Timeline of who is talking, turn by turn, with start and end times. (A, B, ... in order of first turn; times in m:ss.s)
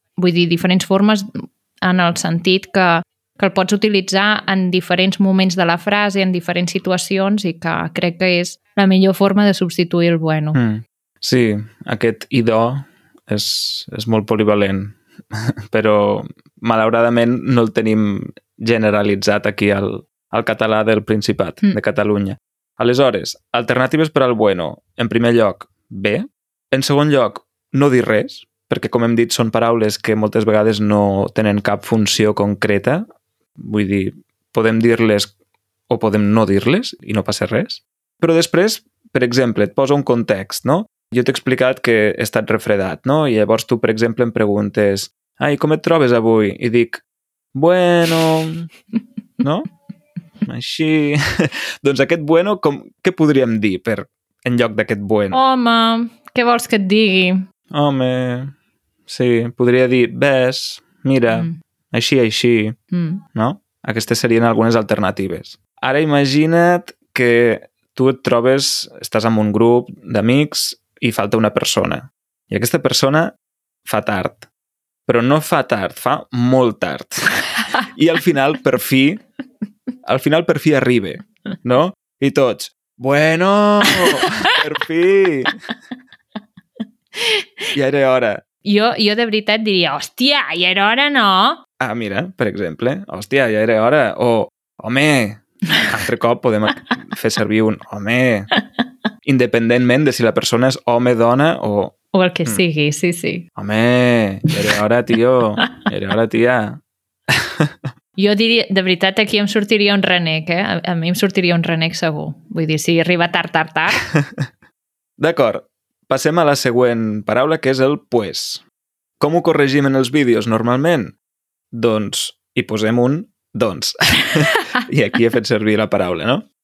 0:00.2-0:10.6 A
0:10.5-0:33.1 B
0:33.6-0:35.3 B
0:35.9-0:47.0 B
0:47.5-0:48.7 B
0:49.4-0:49.7 B
0:50.4-0:55.4 B
0:55.3-0:57.4 A
0:57.7-0:58.5 B
0:59.1-1:02.8 B
1:01.3-1:01.6 A
1:02.9-1:03.2 A
1:03.3-1:13.3 B
1:13.9-1:14.5 B
1:15.1-1:19.2 B
1:20.0-1:25.6 B
1:24.0-1:24.5 A
1:27.2-1:27.5 A
1:27.7-1:28.4 B
1:28.6-1:31.6 A
1:31.8-1:38.5 B
1:39.2-1:41.9 B
1:42.1-1:43.5 A
1:43.6-1:47.8 B
1:48.2-1:54.0 A
1:54.0-1:54.5 B
1:55.2-1:58.6 B
1:59.2-2:01.2 B
2:01.7-2:06.5 B